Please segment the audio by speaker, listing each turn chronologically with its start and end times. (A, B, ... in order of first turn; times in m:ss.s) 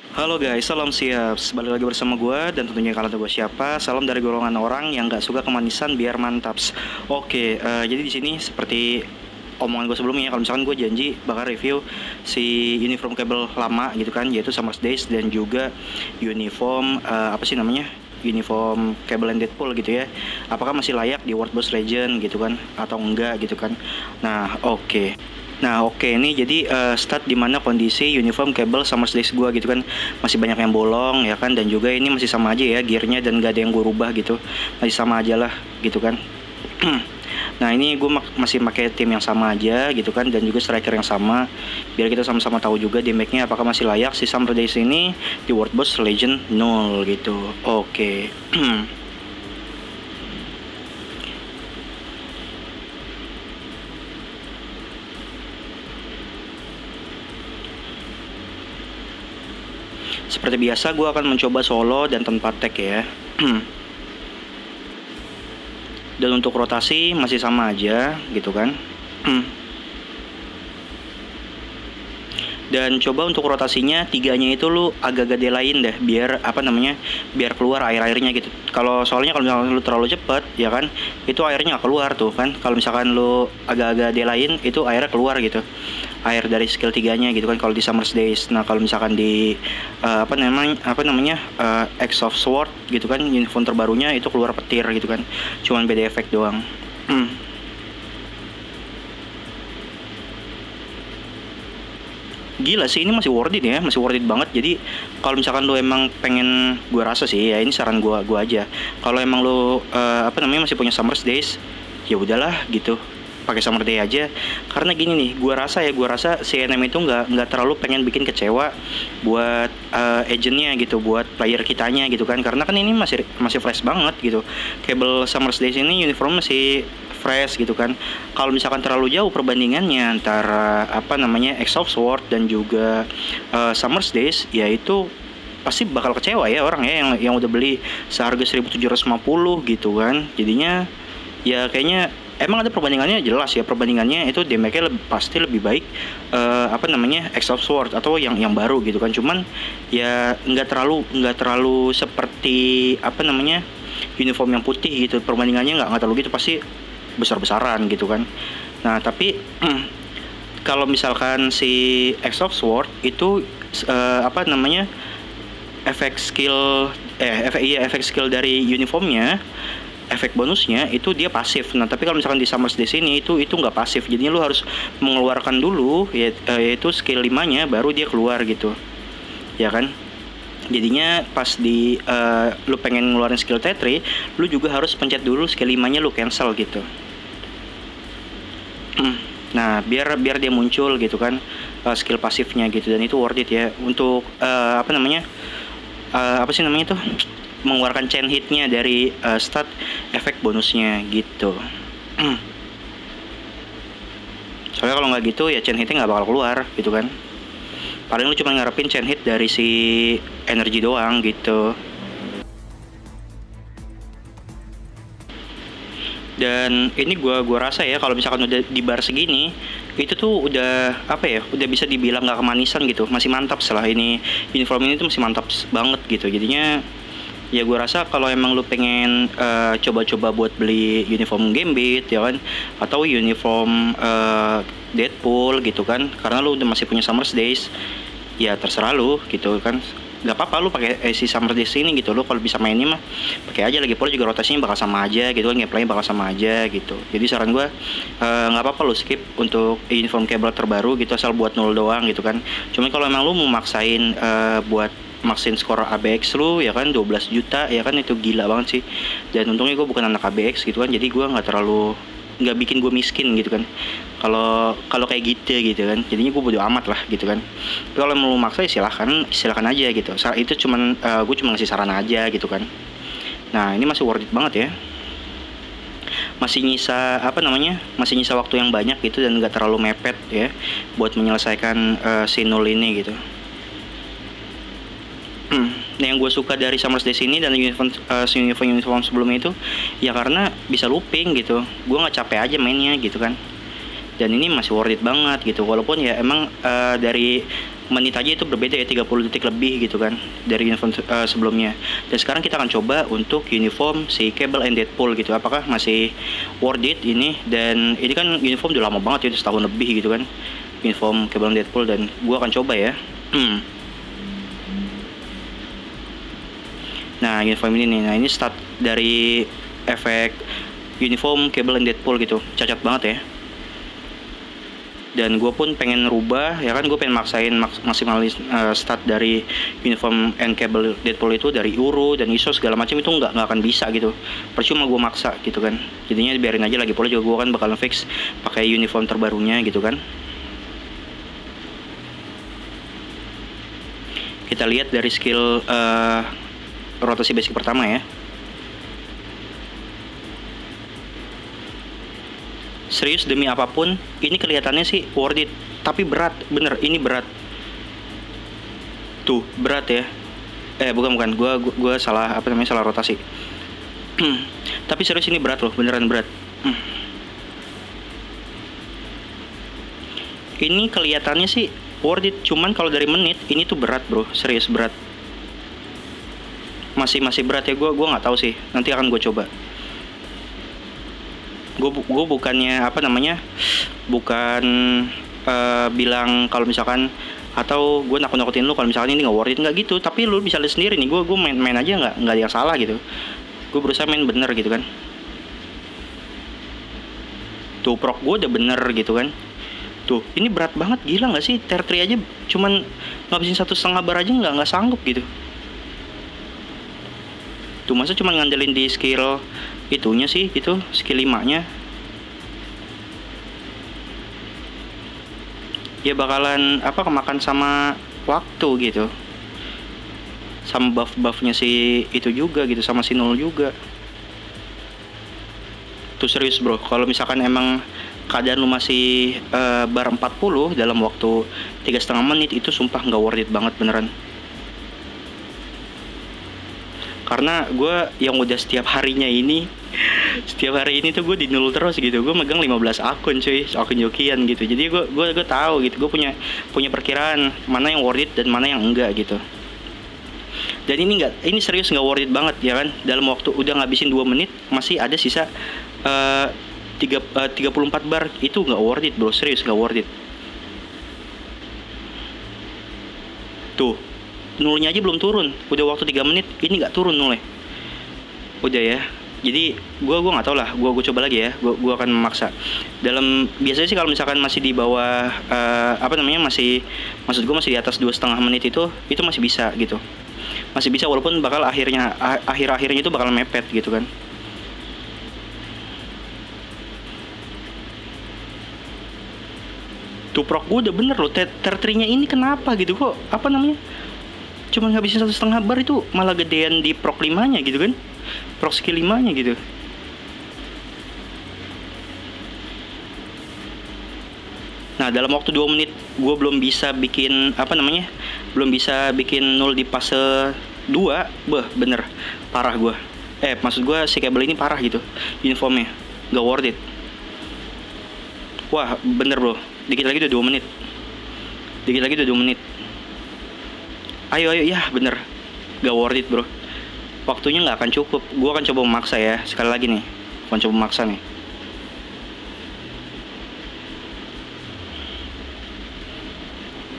0:00.2-0:09.1 A
0:09.6-0:36.2 A
0:36.8-0:37.1 A
0:37.6-0:48.9 A
1:00.3-1:03.7 A
1:06.2-1:09.5 A
1:12.7-1:25.6 A
1:26.3-1:37.4 A
1:42.6-1:51.6 A
1:52.1-1:58.7 A
1:59.2-2:15.1 A
2:15.6-2:20.9 A
2:21.5-2:33.6 A
2:34.2-2:36.6 A
2:37.2-2:38.3 A
2:38.8-2:39.9 A
2:40.6-2:44.9 A
2:45.9-2:49.4 A
2:50.1-2:58.8 A
2:59.6-2:59.9 A
3:00.7-3:06.9 A
3:09.0-3:15.2 A
3:16.2-3:21.6 A
3:24.8-3:27.1 A
3:28.1-3:31.8 A
3:36.4-3:46.8 A
3:47.5-3:57.7 A
3:58.4-4:23.7 A
4:24.2-4:27.4 A
4:28.0-4:32.7 A
4:33.5-4:34.7 A
4:36.4-4:43.2 A
4:45.5-4:53.4 A
4:54.2-5:10.3 A
5:10.8-5:13.6 A
5:17.2-5:20.4 A
5:21.0-5:23.2 A
5:25.2-5:40.0 A
5:44.5-5:46.3 A
5:47.0-5:48.0 A
5:52.9-5:57.3 A
5:59.2-6:00.1 A
6:00.8-6:03.2 A
6:04.2-6:06.9 A
6:10.6-6:14.9 A
6:17.0-6:19.5 A
6:21.8-6:33.0 A
6:33.7-6:34.9 A
6:37.8-6:39.3 A
6:40.1-6:45.3 A
6:47.9-6:51.7 A
6:56.0-6:59.1 A
7:00.7-7:03.7 A
7:06.2-7:14.1 A
7:17.3-7:29.4 A
7:30.9-7:35.5 A
7:36.0-7:40.1 A
7:44.6-7:47.4 A
7:48.6-8:00.0 A
8:00.8-8:04.1 A
8:10.3-8:13.8 A
8:14.7-8:18.0 A
8:18.6-8:19.6 A
8:25.0-8:36.8 A
8:38.7-8:40.7 A
8:41.9-8:42.6 A
8:44.3-8:45.2 A
8:45.8-8:46.5 A
8:47.3-8:51.2 A